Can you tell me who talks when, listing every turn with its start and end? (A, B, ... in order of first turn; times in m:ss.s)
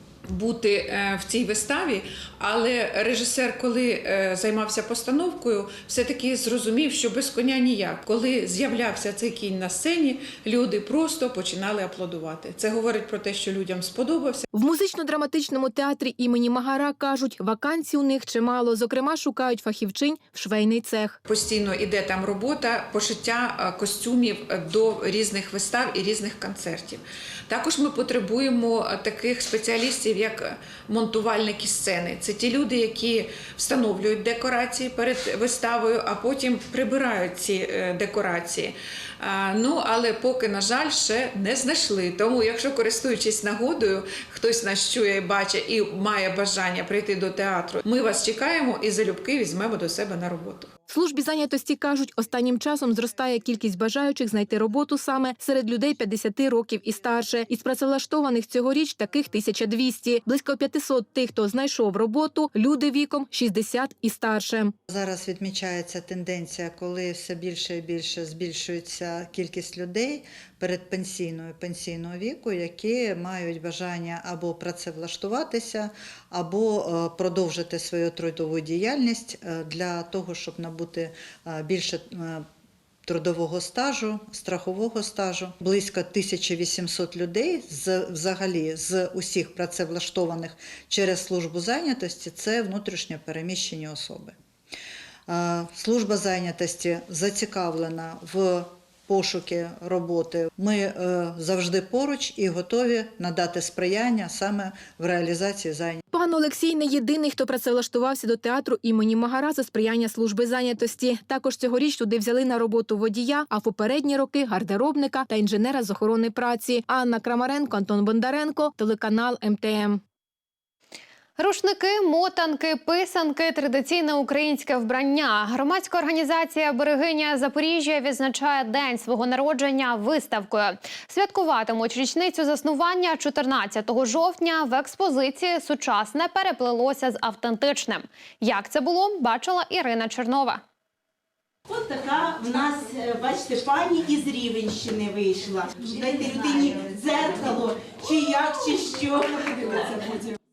0:00.3-0:14.5 A
0:14.5-0:21.2 B
0:21.3-0:50.7 A
0:50.9-1:04.7 B
1:04.9-1:22.4 C
1:23.1-1:34.4 C
1:35.3-1:46.0 C
1:46.1-2:00.0 B
2:01.4-2:20.6 D
2:21.7-2:30.3 E